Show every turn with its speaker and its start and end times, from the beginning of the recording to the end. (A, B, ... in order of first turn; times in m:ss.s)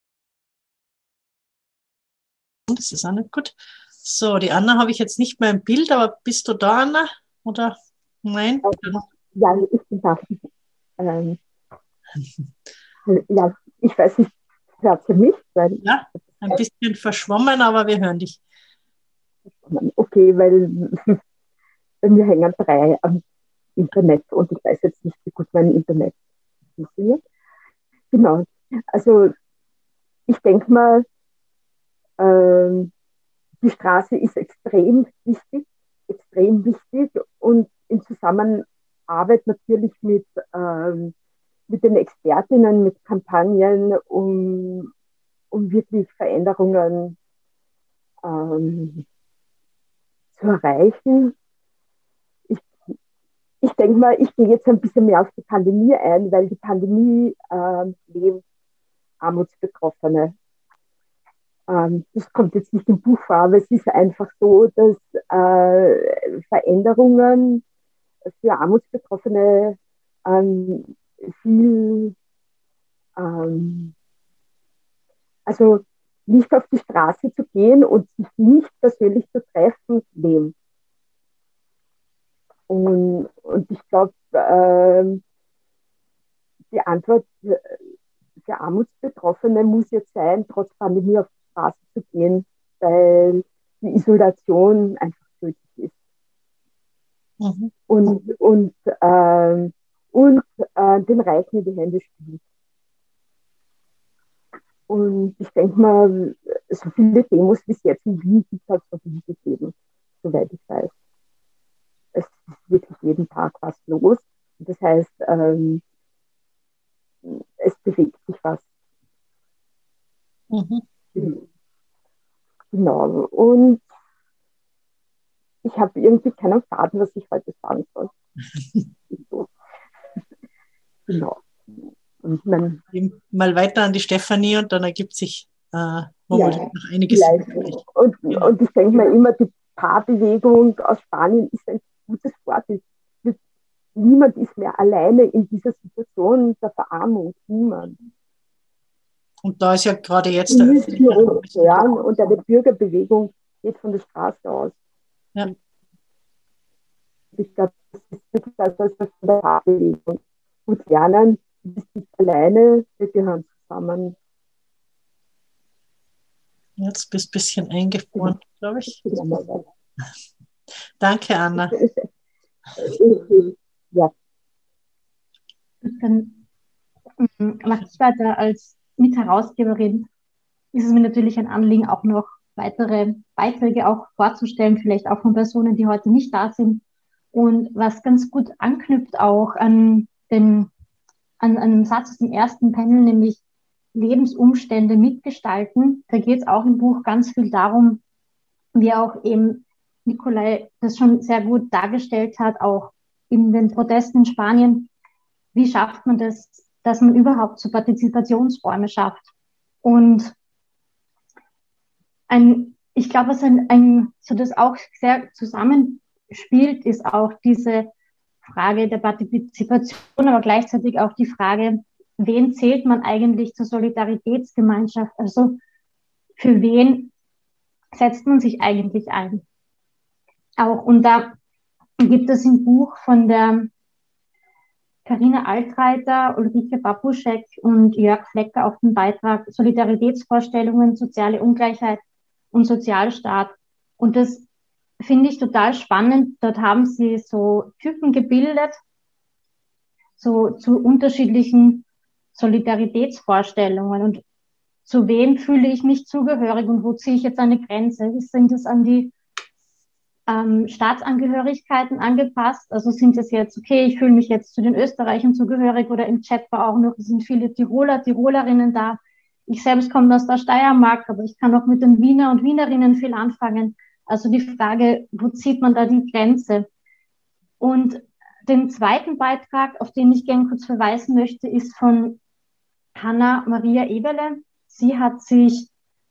0:02.7-0:09.0 A
0:08.6-0:10.4 B
0:11.0-0:11.4 B
0:13.1-0:16.6 B
0:15.8-0:18.4 A
0:19.5-0:21.2 B
0:22.0-0:23.2 B
0:23.8-0:26.1 B
0:26.8-0:27.2 B
0:28.1-0:29.3 B
0:30.3-0:31.0 B
0:32.2-0:32.9 B
0:33.6-0:41.1 B
0:41.7-0:44.9 B
0:45.5-0:47.2 B
0:48.2-0:49.0 B
0:50.4-0:51.3 B
0:52.5-0:52.9 B
0:53.6-0:58.4 B
0:59.2-1:00.3 B
1:01.7-1:07.6 B
1:08.4-1:12.1 B
1:13.2-1:13.9 B
1:15.5-1:20.5 B
1:22.7-1:25.2 B
1:26.7-1:27.8 B
1:28.4-1:35.9 B
1:37.4-1:37.7 A
1:37.9-1:42.4 B
1:44.9-1:50.9 B
1:52.1-1:55.8 B
1:57.2-1:58.6 B
2:00.5-2:00.8 A
2:01.1-2:01.4 B
2:02.7-2:03.8 B
2:05.6-2:08.1 B
2:09.1-2:09.5 B
2:11.1-2:11.4 B
2:12.2-2:12.8 B
2:12.9-2:18.5 A
2:16.3-2:23.4 B
2:23.9-2:28.0 B
2:29.4-2:32.1 A
2:30.5-2:34.7 B
2:37.3-2:44.1 B
2:46.8-2:49.2 A
2:48.2-2:49.6 B
2:51.0-2:51.7 A
2:51.6-2:52.1 B
2:52.8-2:54.1 B
2:55.8-2:56.4 C
2:57.2-3:00.1 C
3:00.7-3:06.8 C
3:07.3-3:10.7 C
3:11.4-3:13.4 C
3:13.9-3:18.0 C
3:18.7-3:24.9 C
3:25.5-3:29.2 C
3:29.8-3:30.3 C
3:32.3-3:37.9 C
3:38.4-3:45.6 C
3:46.4-3:47.1 C
3:47.9-3:49.4 C
3:50.6-3:51.4 C
3:52.0-3:53.7 C
3:55.0-4:02.0 C
4:02.5-4:04.4 C
4:05.0-4:08.8 C
4:10.2-4:11.8 C
4:12.3-4:14.2 C
4:14.9-4:19.1 C
4:20.3-4:36.7 C
4:37.6-4:42.2 C
4:43.0-4:45.7 C